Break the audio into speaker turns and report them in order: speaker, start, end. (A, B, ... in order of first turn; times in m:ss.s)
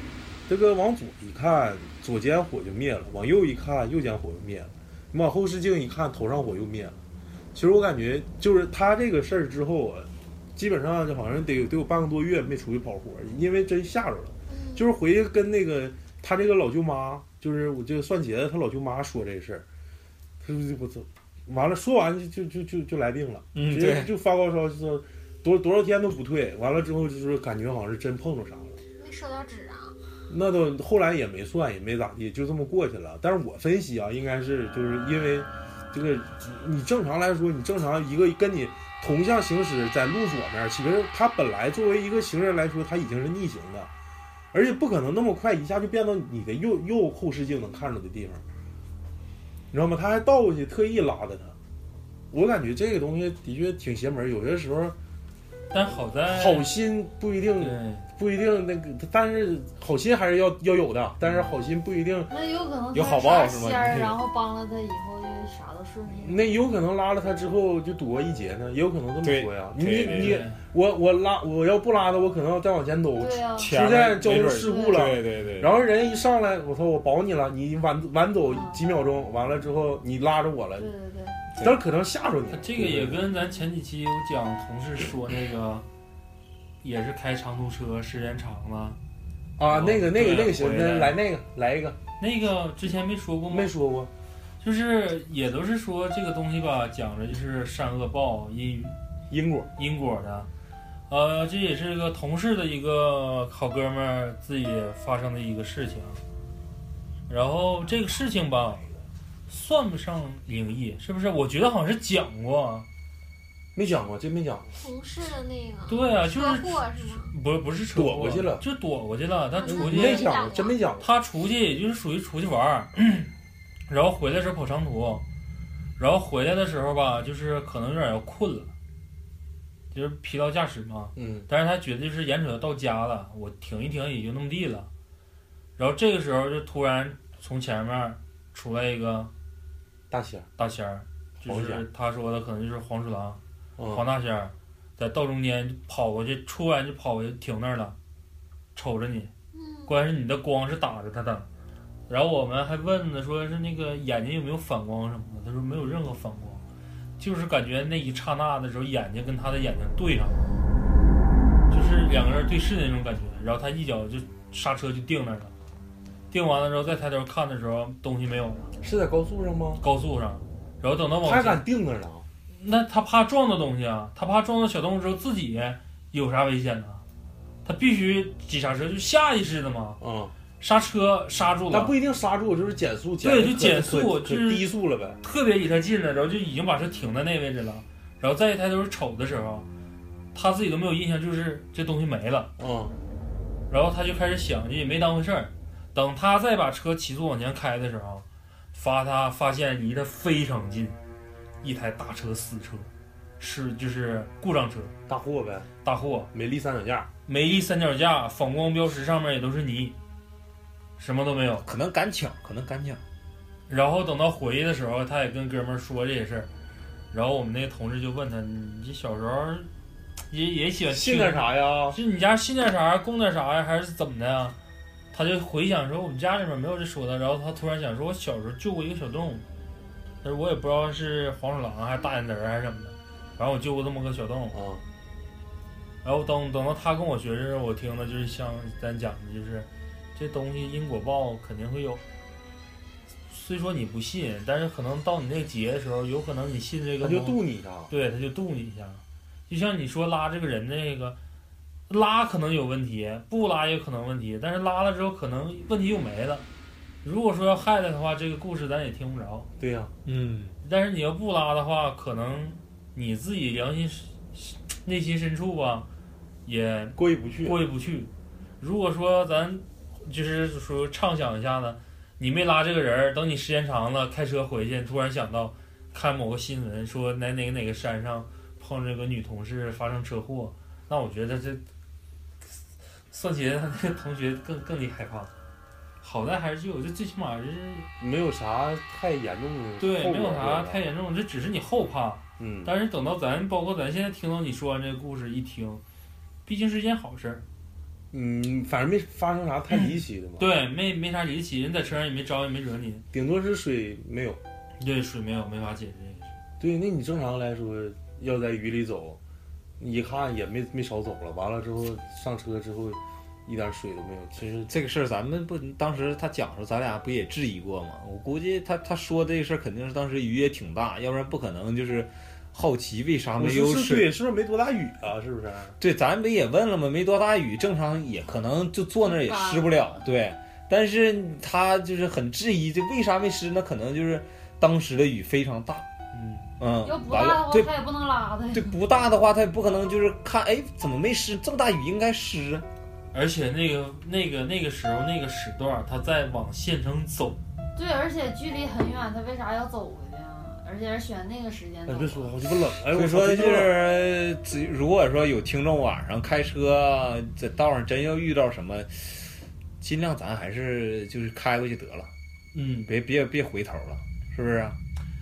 0:00.5-0:07.0 A
0:07.6-0:19.6 A
0:14.5-0:14.9 B
0:20.4-0:28.8 A
0:23.6-0:24.1 C
0:29.0-0:30.0 B
0:30.3-0:43.9 A
0:44.5-0:48.4 A
0:49.7-0:51.6 A
0:52.3-0:55.0 A
0:55.7-0:56.7 D
0:56.3-1:02.3 A
0:57.6-0:58.1 D
1:02.3-1:06.6 E
1:02.9-1:04.2 C
1:06.2-1:20.9 A
1:09.2-1:10.4 C
1:10.2-1:10.6 D
1:13.2-1:15.2 E
1:13.6-1:15.7 C
1:18.4-1:18.8 E
1:20.8-1:21.4 E
1:21.6-1:23.2 A
1:22.5-1:25.9 D
1:26.8-1:29.0 D
1:29.6-1:32.0 A
1:29.7-1:31.2 D
1:32.2-1:33.7 D
1:33.5-1:34.1 A
1:34.6-1:39.0 D
1:39.3-1:39.7 A
1:39.8-1:40.5 D
1:41.1-1:46.2 D
1:47.3-1:48.9 D
1:49.5-1:52.9 D
1:53.8-1:54.8 A
1:54.8-1:57.3 B
1:55.9-2:00.5 D
1:58.0-1:58.6 A
1:59.5-2:00.8 B
1:59.7-2:01.1 A
2:01.0-2:03.3 D
2:03.9-2:05.2 D
2:06.0-2:08.7 D
2:09.9-2:14.9 D
2:11.2-2:11.5 A
2:15.8-2:19.3 D
2:20.1-2:20.5 A
2:20.6-2:28.0 D
2:21.5-2:21.8 A
2:23.8-2:24.1 A
2:28.8-2:29.3 D
2:29.5-2:30.0 B
2:29.9-2:31.5 D
2:32.1-2:36.6 D
2:37.2-2:40.6 D
2:41.7-2:45.5 D
2:46.3-2:48.7 D
2:48.8-2:49.8 A
2:49.8-2:51.6 D
2:51.2-2:52.3 A
2:52.6-2:57.0 D
2:57.6-3:00.0 D
3:00.0-3:00.3 A
3:00.6-3:02.0 D
3:01.7-3:05.2 A
3:03.2-3:04.7 D
3:05.2-3:09.7 D
3:10.3-3:12.5 D
3:12.6-3:13.0 A
3:13.7-3:21.0 D
3:21.6-3:24.9 D
3:25.1-3:25.7 A
3:25.8-3:26.3 D
3:26.3-3:27.1 A
3:27.3-3:30.0 D
3:31.0-3:31.6 D
3:31.6-3:33.0 C
3:33.7-3:36.5 D
3:37.1-3:39.7 D
3:40.3-3:44.6 D
3:40.9-3:42.0 A
3:45.1-3:49.4 D
3:50.2-3:54.6 D
3:54.5-3:54.8 A
3:56.0-4:02.0 D
4:03.3-4:07.4 D
4:07.0-4:07.9 A
4:07.9-4:11.2 D
4:11.9-4:16.5 D
4:17.0-4:19.5 D
4:19.6-4:19.9 A
4:20.0-4:20.6 C
4:20.6-4:25.9 D
4:26.4-4:41.6 D
4:27.0-4:27.6 A
4:43.1-4:45.3 D
4:46.0-4:47.9 D
4:48.0-4:50.9 A
4:49.8-4:55.8 D
4:52.4-4:52.7 A
4:56.5-4:57.4 D
4:58.1-5:00.5 A
4:59.7-5:03.0 D
5:03.1-5:04.4 A
5:04.8-5:06.3 D
5:06.6-5:09.2 A
5:09.8-5:14.7 A
5:14.7-5:24.1 C
5:23.4-5:25.8 A
5:25.8-5:35.9 C
5:29.0-5:29.8 E
5:36.1-5:36.5 D
5:36.6-5:37.7 C
5:36.8-5:38.8 E
5:38.5-5:42.7 C
5:43.1-5:47.4 D
5:47.8-5:52.3 E
5:51.9-5:53.7 A
5:52.9-6:02.1 C
6:02.5-6:02.9 D
6:02.9-6:04.8 C